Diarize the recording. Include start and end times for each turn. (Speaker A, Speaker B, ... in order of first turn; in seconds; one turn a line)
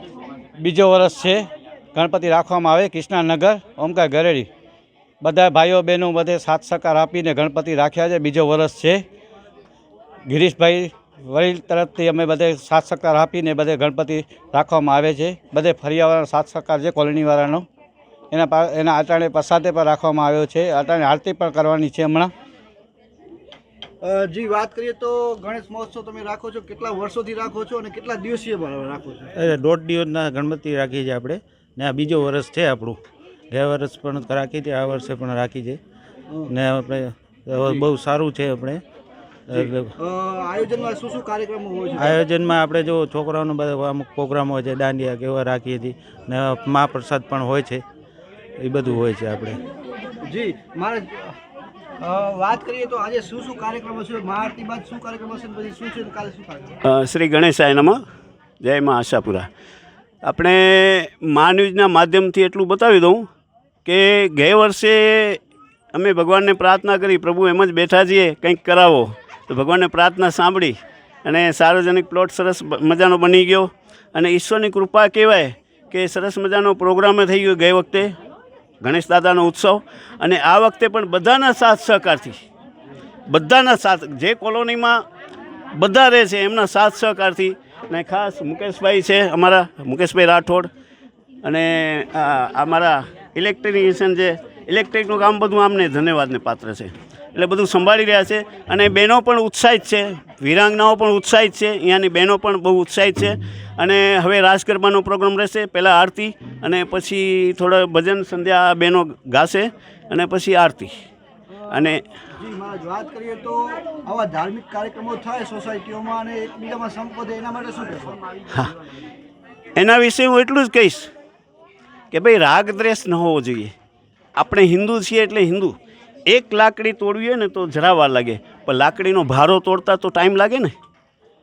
Speaker A: 0.6-4.5
Speaker A: 5.2-9.0
Speaker A: 10.2-17.7
Speaker A: 18.3-22.3
Speaker B: 24.0-29.3
Speaker C: 29.4-33.0
Speaker C: 33.5-35.8
Speaker C: 36.5-38.8
Speaker C: 39.5-39.9
Speaker B: 39.5-42.1
Speaker C: 42.0-47.8
Speaker C: 48.6-49.6
Speaker B: 50.2-51.4
Speaker B: 52.0-56.8
Speaker D: 56.9-58.0
Speaker D: 58.6-59.5
Speaker D: 60.2-63.2
Speaker D: 63.8-65.4
Speaker D: 65.9-78.1
Speaker D: 78.8-82.4
Speaker D: 83.3-85.0
Speaker D: 85.8-90.7
Speaker D: 91.4-111.0
Speaker B: 111.5-118.3
Speaker D: 111.7-112.0
Speaker D: 119.8-121.1
Speaker D: 122.1-123.7
Speaker D: 124.3-125.8
Speaker D: 126.3-130.7